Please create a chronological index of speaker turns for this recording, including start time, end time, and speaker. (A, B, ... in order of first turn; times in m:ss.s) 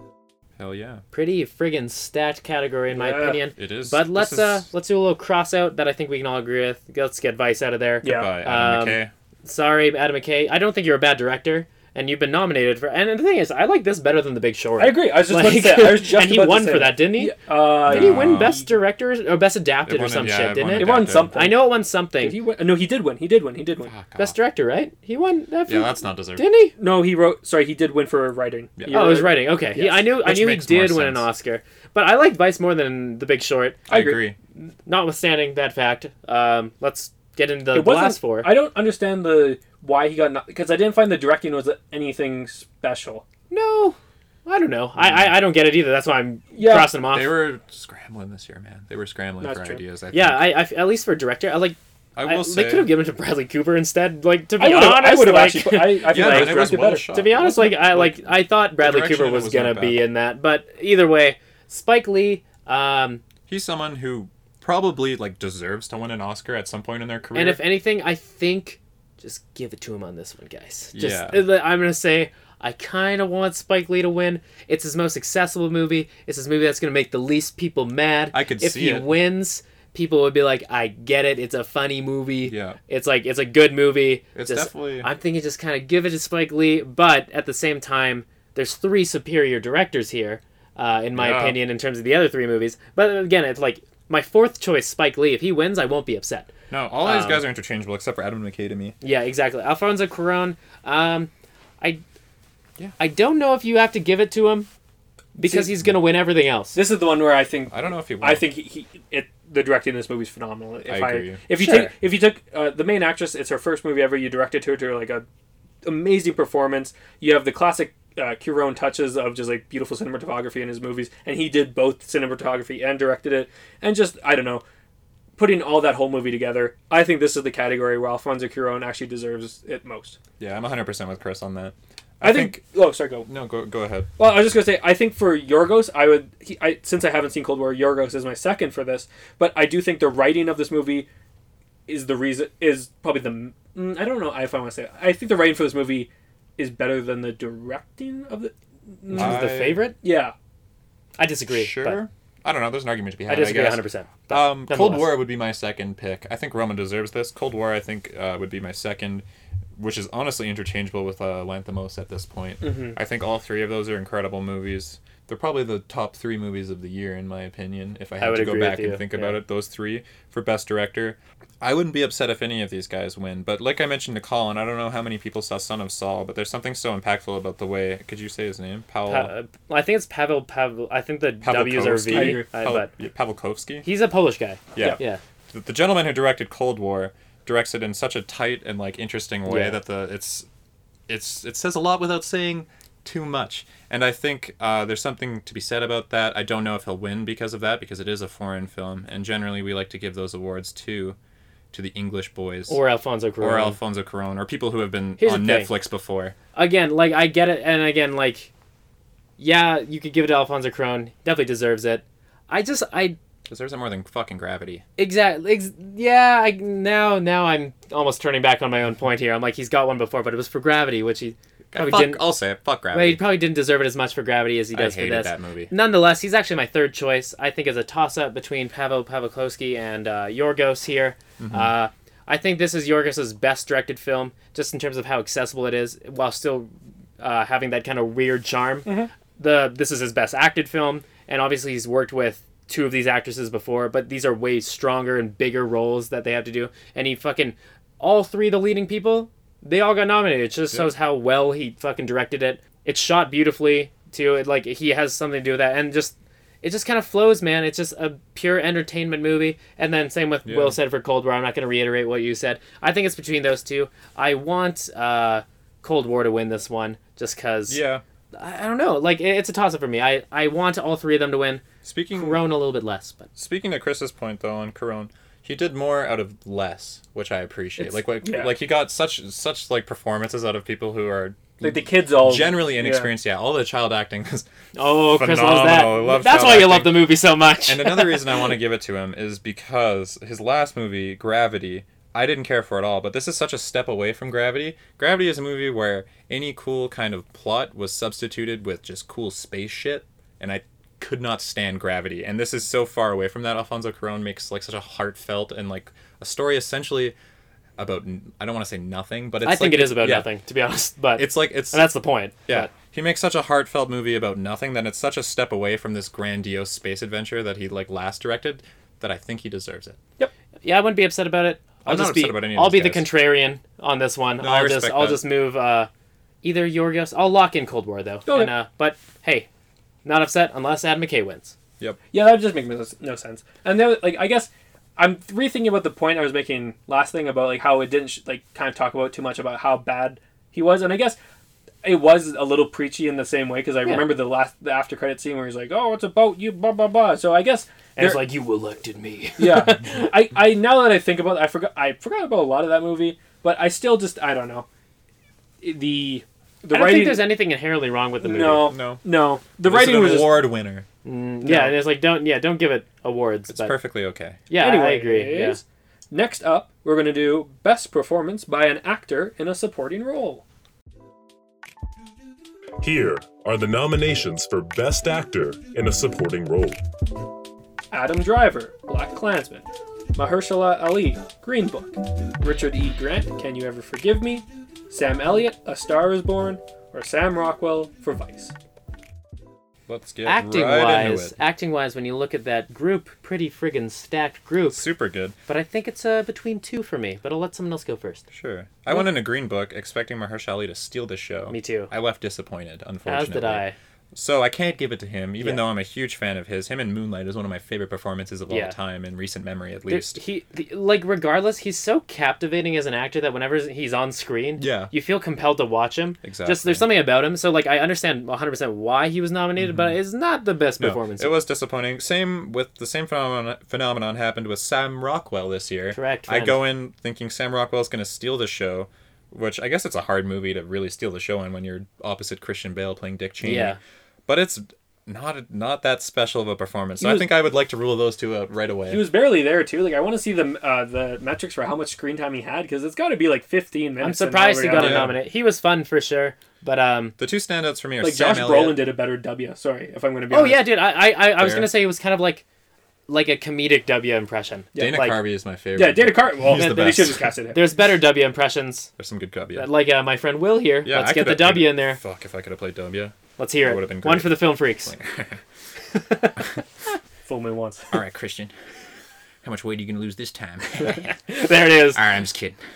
0:00.6-0:01.0 A
0:01.1-0:22.4 B
0:02.9-0:03.4 C
0:03.6-0:04.7 A
0:08.0-0:08.3 C
0:08.0-0:09.1 A
0:14.8-0:18.7 C
0:17.9-0:18.6 A
0:19.9-0:21.4 A
0:20.7-0:23.9 C
0:23.8-0:24.3 A
0:24.2-0:26.7 B
0:25.7-0:26.4 A
0:26.8-0:30.0 C
0:28.8-0:29.1 A
0:28.9-0:33.8 B
0:30.2-0:31.3 A
0:33.9-0:34.4 A
0:33.9-0:34.2 C
0:34.6-0:38.5 B
0:37.7-0:43.2 C
0:43.5-0:47.4 B
0:45.0-0:45.3 A
0:46.5-0:46.9 C
0:47.1-0:50.6 A
0:49.4-0:49.8 C
0:50.1-1:03.2 B
0:52.2-0:52.9 A
0:54.6-0:57.5 C
0:56.0-1:00.0 A
1:03.5-1:07.6 A
1:07.3-1:36.5 B
1:10.9-1:11.4 A
1:18.3-1:19.1 A
1:22.4-1:22.8 A
1:24.3-1:25.1 A
1:31.2-1:31.6 A
1:36.7-1:39.0 A
1:37.0-1:37.4 B
1:39.0-1:42.0 B
1:43.0-1:44.7 B
1:45.4-1:45.7 C
1:45.4-1:46.8 B
1:46.7-1:55.3 C
1:47.7-1:48.4 A
1:50.9-1:51.4 A
1:51.6-1:51.9 B
1:55.8-2:04.6 C
2:05.4-2:10.2 C
2:10.4-2:12.6 A
2:12.2-2:13.3 C
2:13.2-2:14.1 A
2:14.2-2:21.1 C
2:21.9-2:29.4 C
2:29.1-2:30.0 B
2:29.1-2:29.8 A
2:30.0-2:30.3 C
2:31.2-2:32.0 B
2:31.5-2:39.2 A
2:33.3-2:35.2 B
2:39.8-2:59.3 A
2:42.6-2:43.0 C
2:48.2-2:49.4 B
2:59.1-3:02.9 B
3:01.4-3:03.9 A
3:02.1-3:02.6 C
3:03.8-3:05.2 B
3:04.7-3:10.5 A
3:09.5-3:09.8 B
3:11.1-3:21.2 A
3:21.7-3:22.8 A
3:22.7-3:23.8 B
3:23.4-3:26.3 A
3:25.2-3:25.7 B
3:26.5-3:28.5 B
3:29.4-3:33.2 B
3:33.5-3:34.8 A
3:35.0-3:42.2 B
3:41.7-3:43.2 A
3:42.9-4:27.8 B
3:44.7-3:45.7 A
3:51.4-3:51.7 A
3:58.8-3:59.1 C
4:20.4-4:20.8 A
4:27.7-4:28.0 A
4:28.3-4:31.6 B
4:31.8-4:32.4 A
4:32.1-4:33.3 B
4:33.4-5:07.1 A
4:38.2-4:38.5 C
4:41.6-4:43.1 C
4:44.8-4:48.5 B
5:07.8-5:10.3 A
5:09.4-5:12.7 B
5:11.2-5:11.9 A
5:12.4-5:20.0 A
5:20.6-5:25.9 B
5:21.8-5:23.1 A
5:24.4-5:25.2 A
5:26.4-5:29.5 B
5:28.3-5:28.5 C
5:30.0-5:31.6 B
5:32.1-5:41.2 C
5:41.8-5:48.3 C
5:48.0-5:49.9 B
5:49.4-5:54.7 C
5:55.6-5:57.3 C
5:56.7-5:58.7 B
5:58.2-6:00.5 C
5:58.6-5:59.0 A
5:59.6-6:00.9 A
6:01.0-6:03.7 B
6:01.4-6:01.8 C
6:03.5-6:04.4 A
6:04.5-6:05.6 B
6:04.6-6:10.4 C
6:12.8-6:16.8 D
6:17.9-6:28.5 C
6:29.9-6:31.3 A
6:30.3-6:34.8 B
6:34.7-6:35.4 A
6:35.5-6:38.2 B
6:38.3-6:50.2 A
6:41.5-6:41.9 B
6:43.0-6:43.7 B
6:48.5-6:48.7 B
6:49.9-7:01.4 B
6:54.6-6:54.9 A
6:56.2-6:56.8 A
6:59.6-6:59.9 A
7:00.8-7:19.0 A
7:05.9-7:06.6 B
7:13.4-7:13.8 B
7:17.0-7:17.3 C
7:18.9-7:25.1 C
7:24.0-7:27.1 B
7:24.7-7:25.1 A
7:27.2-7:28.8 A
7:28.0-7:30.7 C
7:30.3-7:32.4 B
7:31.3-7:31.7 A
7:33.1-7:35.2 B
7:34.7-7:35.0 C
7:34.8-7:37.3 A
7:35.7-7:37.6 C
7:36.6-7:38.9 B
7:39.0-7:39.7 A
7:39.6-7:42.0 B
7:40.8-7:45.4 A
7:43.4-7:44.9 B
7:45.9-7:46.4 B
7:47.3-7:47.9 C
7:47.9-7:48.5 A
7:49.4-7:51.2 A
7:50.9-7:52.0 B
7:51.9-7:52.6 A